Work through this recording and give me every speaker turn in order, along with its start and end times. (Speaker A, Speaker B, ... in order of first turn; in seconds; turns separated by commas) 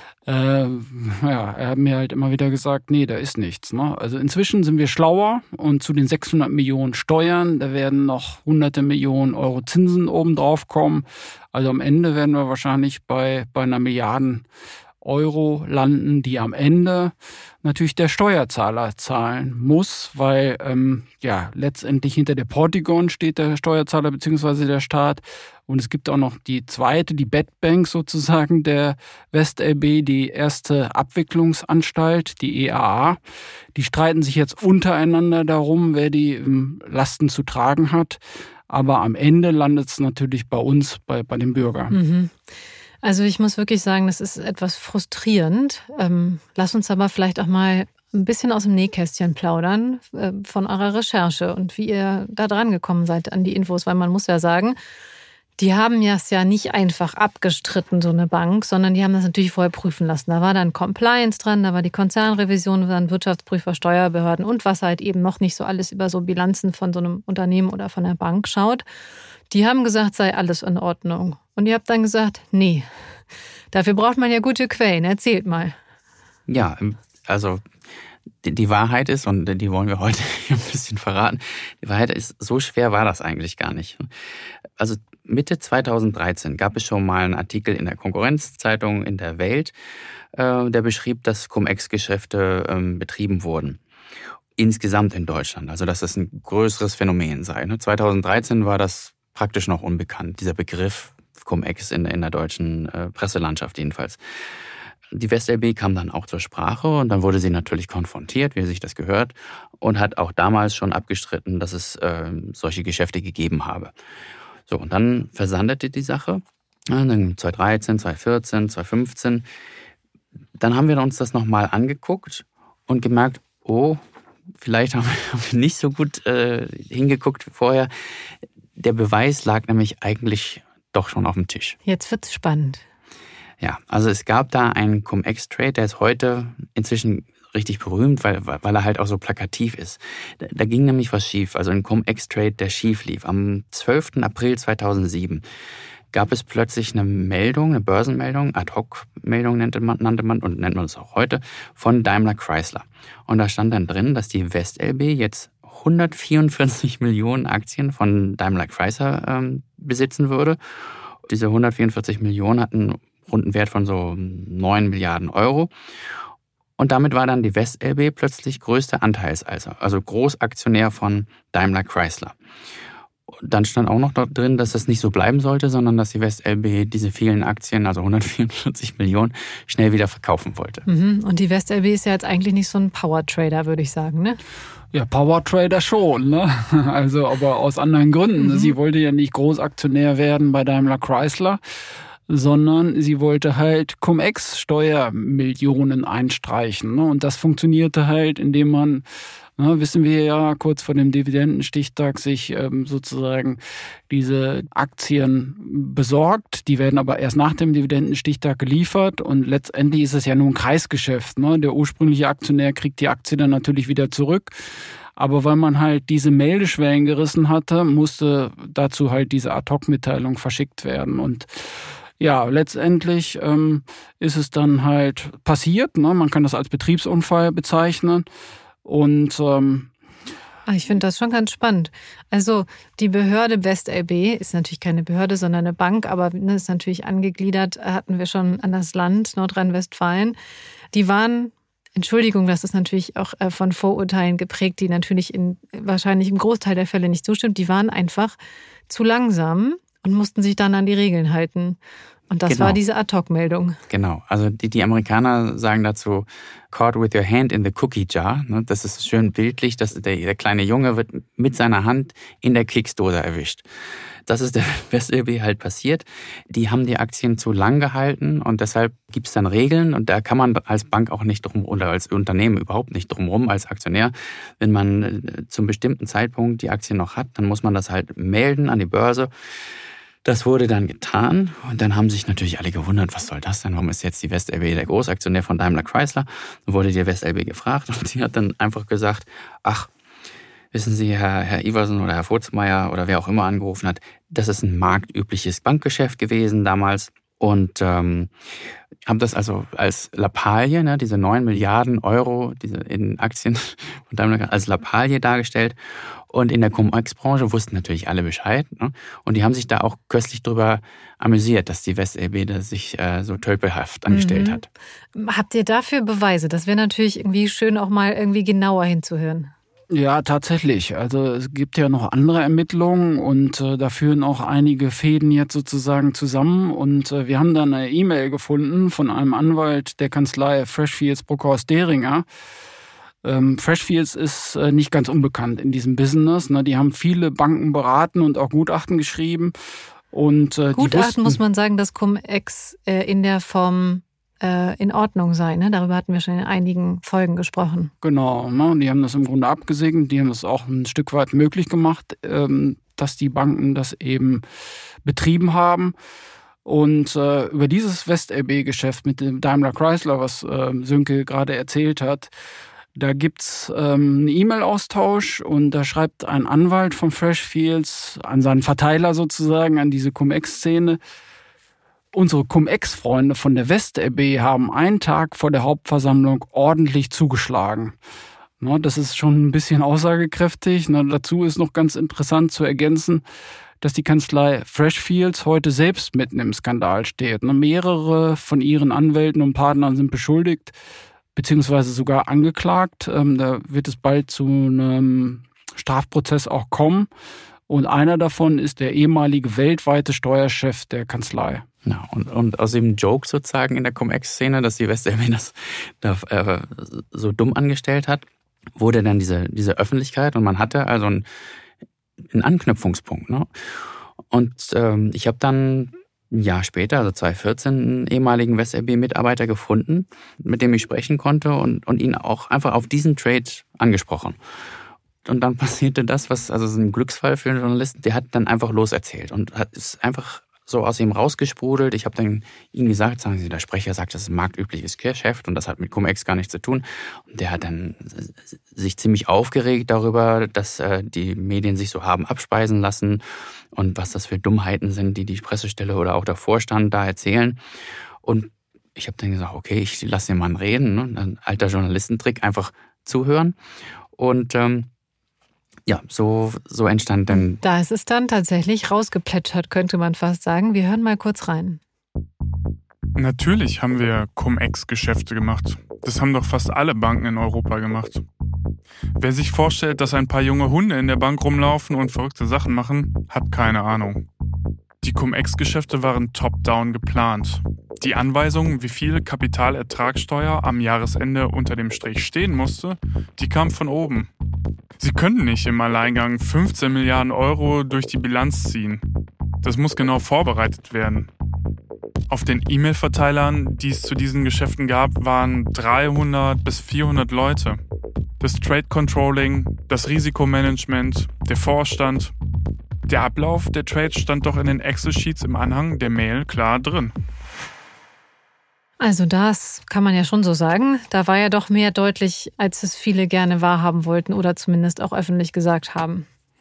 Speaker A: 0.3-14.4, Speaker A: 15.0-33.2, Speaker A: 33.8-42.0, Speaker B: 41.9-42.5, Speaker B: 43.0-54.8, Speaker B: 55.6-68.8, Speaker B: 69.5-72.9, Speaker B: 73.7-75.8, Speaker C: 76.5-77.6, Speaker C: 78.4-84.1, Speaker C: 84.8-89.7, Speaker C: 90.3-93.8, Speaker C: 94.6-104.2, Speaker C: 105.1-113.9, Speaker C: 114.7-119.5, Speaker C: 120.6-124.0, Speaker C: 124.6-127.9, Speaker C: 128.8-131.8, Speaker B: 131.8-132.8, Speaker C: 133.6-145.4, Speaker C: 146.1-160.6, Speaker C: 161.2-165.7, Speaker C: 166.8-172.4, Speaker C: 173.3-180.8, Speaker B: 180.9-184.4, Speaker A: 184.9-191.6, Speaker B: 188.4-188.7, Speaker A: 192.3-199.0, Speaker A: 199.6-214.6, Speaker A: 215.2-228.2, Speaker A: 228.8-229.9, Speaker B: 230.7-240.4, Speaker B: 240.9-248.4, Speaker B: 248.9-251.8, Speaker B: 252.3-253.8, Speaker C: 252.5-252.8, Speaker C: 253.9-263.7, Speaker C: 264.3-279.3, Speaker C: 280.2-289.9, Speaker C: 290.7-298.3, Speaker C: 299.1-305.8, Speaker C: 306.3-314.7, Speaker B: 314.1-314.6, Speaker B: 315.1-319.5, Speaker A: 319.9-332.2, Speaker A: 333.2-339.5, Speaker A: 340.1-341.4, Speaker B: 340.7-347.9, Speaker A: 348.0-354.4, Speaker A: 355.0-355.9, Speaker A: 356.6-362.3, Speaker A: 362.9-371.0, Speaker A: 372.1-377.9, Speaker A: 378.6-383.2, Speaker A: 383.8-390.7, Speaker A: 391.4-397.1, Speaker A: 397.7-401.6, Speaker C: 401.8-411.2, Speaker C: 412.3-424.4, Speaker C: 425.2-447.6, Speaker C: 448.2-453.6, Speaker C: 454.1-454.9, Speaker C: 455.9-457.6, Speaker B: 457.3-461.8, Speaker D: 463.1-468.2, Speaker D: 469.2-474.3, Speaker D: 475.0-484.3, Speaker D: 485.0-489.0, Speaker D: 489.6-491.3, Speaker D: 492.3-497.8, Speaker D: 498.4-502.3, Speaker D: 503.1-507.1, Speaker B: 509.0-516.3